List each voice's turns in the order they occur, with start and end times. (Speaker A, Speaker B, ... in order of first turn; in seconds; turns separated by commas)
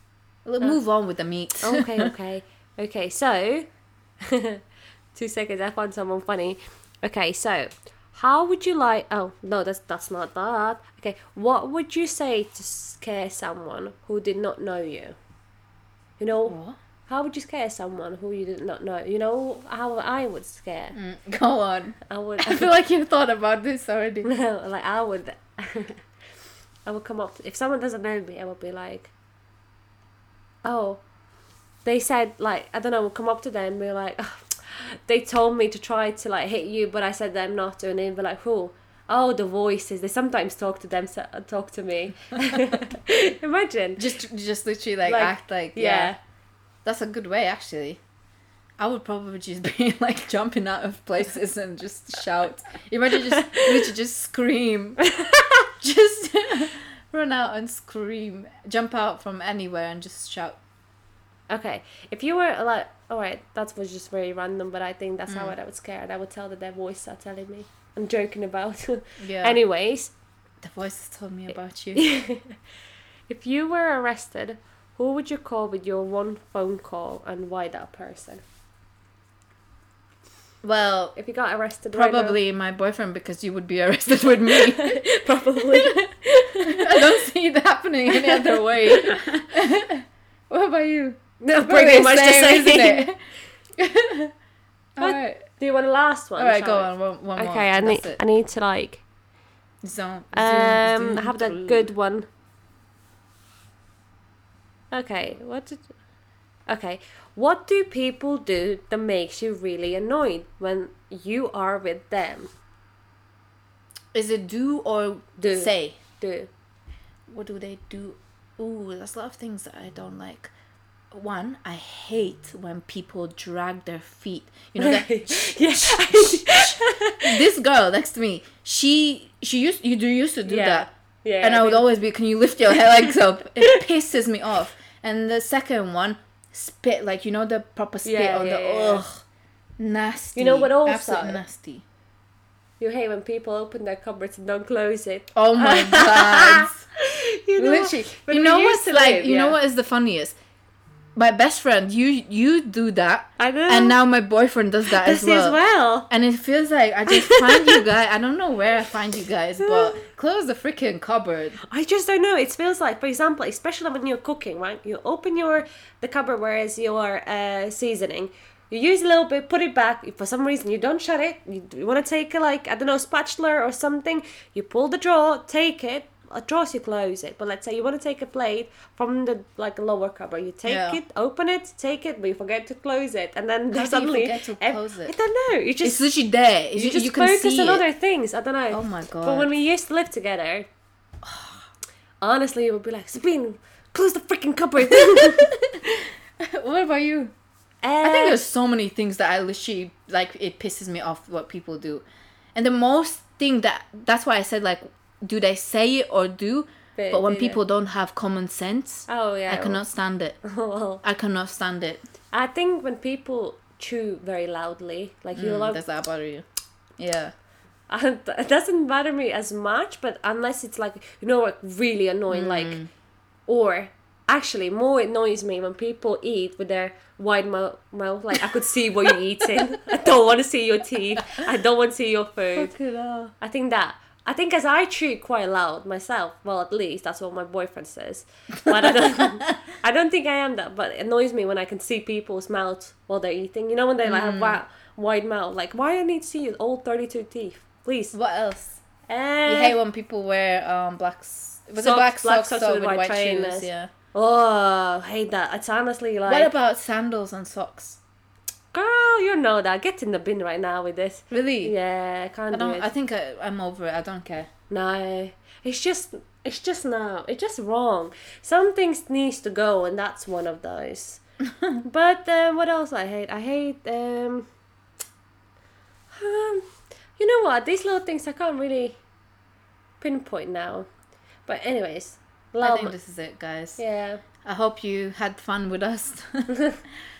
Speaker A: 0.5-2.1, Speaker B: 1.6-3.7, Speaker B: 4.2-4.6, Speaker B: 5.2-15.2, Speaker B: 16.2-16.6, Speaker A: 16.5-16.8, Speaker B: 17.1-21.0, Speaker A: 20.9-24.3, Speaker B: 22.1-22.8, Speaker B: 24.2-26.0, Speaker B: 26.9-29.1, Speaker B: 30.6-31.0, Speaker B: 31.9-44.1, Speaker A: 44.0-46.1, Speaker B: 45.0-46.2, Speaker A: 46.9-48.0, Speaker A: 48.8-60.6, Speaker B: 53.3-53.8, Speaker B: 61.5-70.1, Speaker A: 65.3-65.5, Speaker A: 69.2-69.6, Speaker A: 70.6-72.0, Speaker B: 72.0-72.6, Speaker B: 73.3-78.4, Speaker A: 80.6-81.2, Speaker B: 81.2-82.4, Speaker A: 81.9-86.1, Speaker B: 84.5-87.1, Speaker A: 86.7-93.2, Speaker B: 88.1-89.2, Speaker B: 91.4-93.1, Speaker A: 93.8-94.3, Speaker A: 95.0-95.5, Speaker B: 95.0-99.0, Speaker A: 96.4-98.2, Speaker A: 99.8-101.9, Speaker B: 100.3-102.3, Speaker B: 104.9-105.9, Speaker B: 106.7-112.5, Speaker A: 114.1-116.0, Speaker B: 115.4-116.5, Speaker A: 117.3-120.5, Speaker A: 121.1-130.9, Speaker B: 124.8-127.4, Speaker B: 130.5-131.9, Speaker A: 131.4-139.1, Speaker B: 132.7-133.8, Speaker B: 138.0-139.1, Speaker A: 139.8-141.8, Speaker B: 140.3-141.4, Speaker B: 142.8-149.6, Speaker A: 145.3-146.8, Speaker A: 147.6-150.3, Speaker A: 151.2-155.6, Speaker B: 153.4-154.0, Speaker B: 154.9-156.1, Speaker A: 156.1-161.6, Speaker B: 157.1-157.8, Speaker B: 159.6-160.0, Speaker B: 161.7-186.1, Speaker A: 180.6-181.0, Speaker A: 183.7-185.1, Speaker A: 185.8-187.8, Speaker B: 186.7-190.7, Speaker A: 188.7-189.5, Speaker A: 191.3-191.5, Speaker B: 192.2-195.5, Speaker A: 194.9-197.3, Speaker B: 197.8-198.5, Speaker A: 198.0-210.4, Speaker B: 207.0-207.6, Speaker B: 209.1-209.8, Speaker B: 210.4-211.0, Speaker A: 211.0-212.0, Speaker B: 212.3-215.8, Speaker A: 215.3-216.4, Speaker A: 217.0-217.3, Speaker B: 217.9-222.9, Speaker A: 222.3-222.9, Speaker B: 223.5-232.7, Speaker A: 232.6-233.3, Speaker B: 233.4-248.2, Speaker A: 238.7-239.2, Speaker A: 244.0-244.6, Speaker A: 248.1-248.8, Speaker B: 249.1-249.8, Speaker A: 249.5-253.9, Speaker B: 251.8-256.5, Speaker A: 256.3-258.0, Speaker B: 258.7-262.9, Speaker A: 261.3-261.7, Speaker A: 262.5-264.5, Speaker B: 264.7-271.2, Speaker B: 271.8-274.5, Speaker B: 276.1-276.6, Speaker B: 277.2-279.0, Speaker B: 280.0-280.9, Speaker B: 281.5-282.9, Speaker A: 282.6-283.8, Speaker B: 283.8-284.2, Speaker A: 284.4-286.5, Speaker B: 286.5-286.8